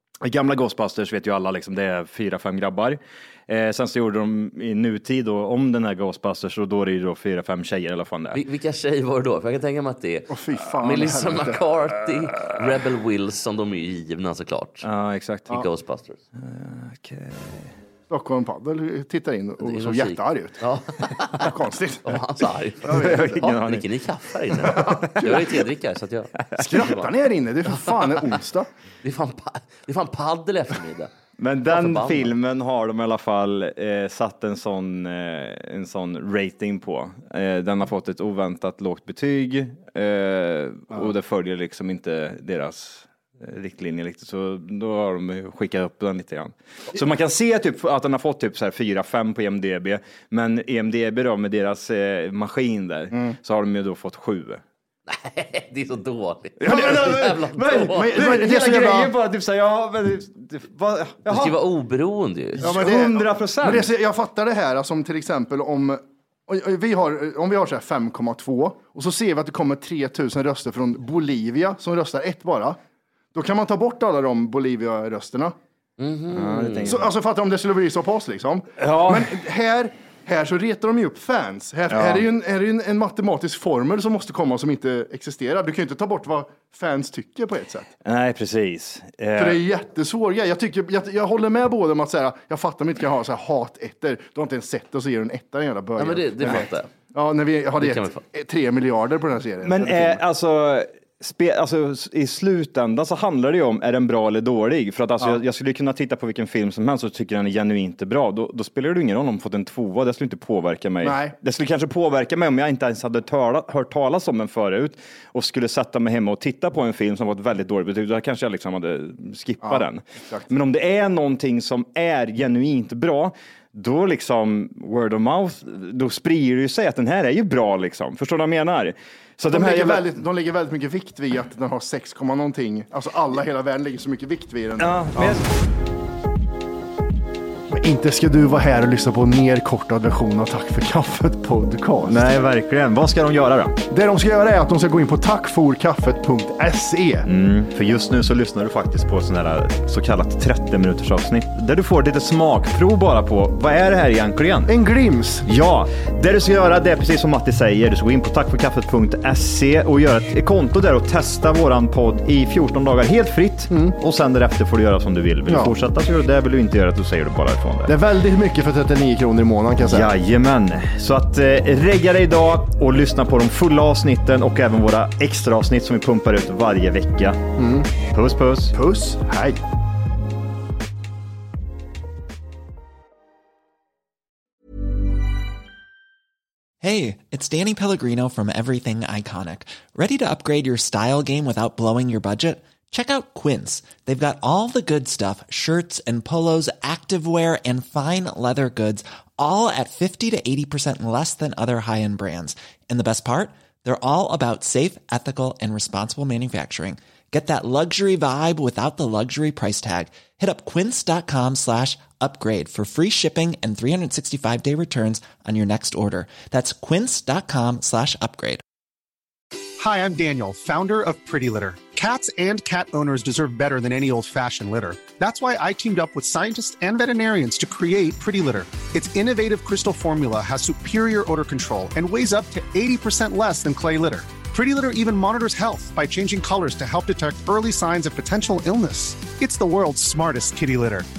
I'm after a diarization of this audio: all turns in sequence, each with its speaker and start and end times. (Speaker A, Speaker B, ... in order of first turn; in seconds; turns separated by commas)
Speaker A: 0.2-8.4, Speaker B: 8.3-14.9, Speaker C: 10.3-11.6, Speaker A: 14.8-15.6, Speaker B: 15.5-16.2, Speaker A: 16.4-17.7, Speaker C: 18.1-20.6, Speaker B: 19.6-21.5, Speaker C: 21.4-22.2, Speaker B: 22.0-27.1, Speaker C: 22.8-23.5, Speaker A: 22.9-23.8, Speaker C: 24.6-25.6, Speaker A: 26.5-26.8, Speaker C: 26.6-28.7, Speaker B: 27.7-28.4, Speaker B: 29.0-31.1, Speaker A: 31.4-54.6, Speaker B: 31.7-32.3, Speaker C: 53.1-53.4, Speaker B: 55.1-58.2, Speaker A: 56.6-61.6, Speaker C: 57.8-59.1, Speaker B: 61.2-62.6, Speaker A: 62.5-63.9, Speaker C: 62.6-72.8, Speaker C: 73.3-75.5, Speaker B: 76.0-77.0, Speaker A: 76.3-77.1, Speaker C: 76.8-87.9, Speaker A: 78.8-79.3, Speaker A: 81.9-82.3, Speaker A: 88.0-89.6, Speaker C: 89.3-100.2, Speaker B: 96.0-96.9, Speaker B: 97.8-98.2, Speaker A: 99.6-130.1, Speaker C: 111.0-111.3, Speaker C: 119.6-120.5, Speaker C: 129.5-135.4, Speaker A: 134.8-135.4, Speaker C: 137.7-142.3, Speaker A: 142.1-143.8, Speaker C: 143.9-147.3, Speaker A: 147.2-154.7, Speaker C: 154.7-155.5, Speaker A: 155.4-167.9, Speaker C: 163.7-163.9, Speaker C: 165.5-165.8, Speaker C: 167.9-170.1, Speaker A: 169.8-177.4, Speaker C: 177.6-177.9, Speaker A: 177.9-178.7, Speaker C: 178.7-179.6, Speaker D: 186.8-218.6, Speaker E: 219.8-241.1